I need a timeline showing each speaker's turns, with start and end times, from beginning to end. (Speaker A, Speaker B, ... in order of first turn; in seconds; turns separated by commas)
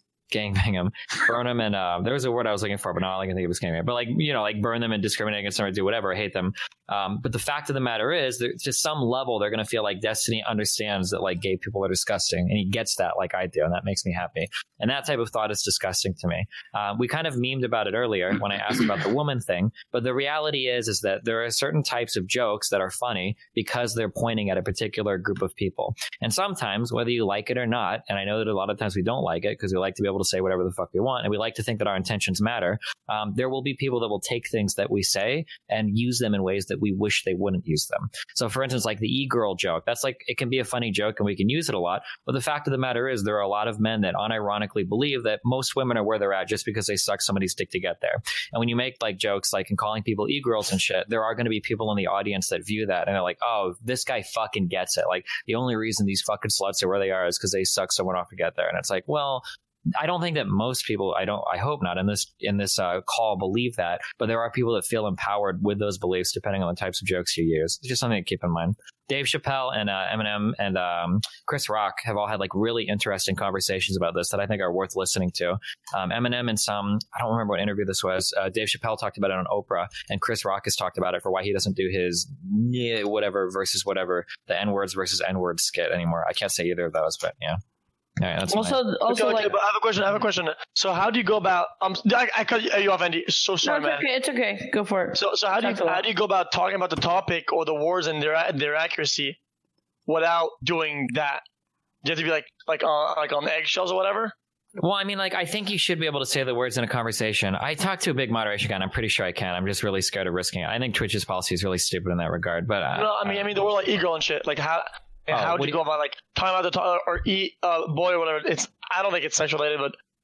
Speaker A: 0.3-87.6, Speaker A: 88.2-88.8, Speaker B: 88.5-89.6, Speaker C: 89.0-94.0, Speaker B: 93.6-96.1, Speaker C: 95.1-99.4, Speaker C: 100.1-101.4, Speaker C: 102.0-104.3, Speaker A: 104.8-113.6, Speaker C: 112.9-120.0, Speaker A: 115.3-115.8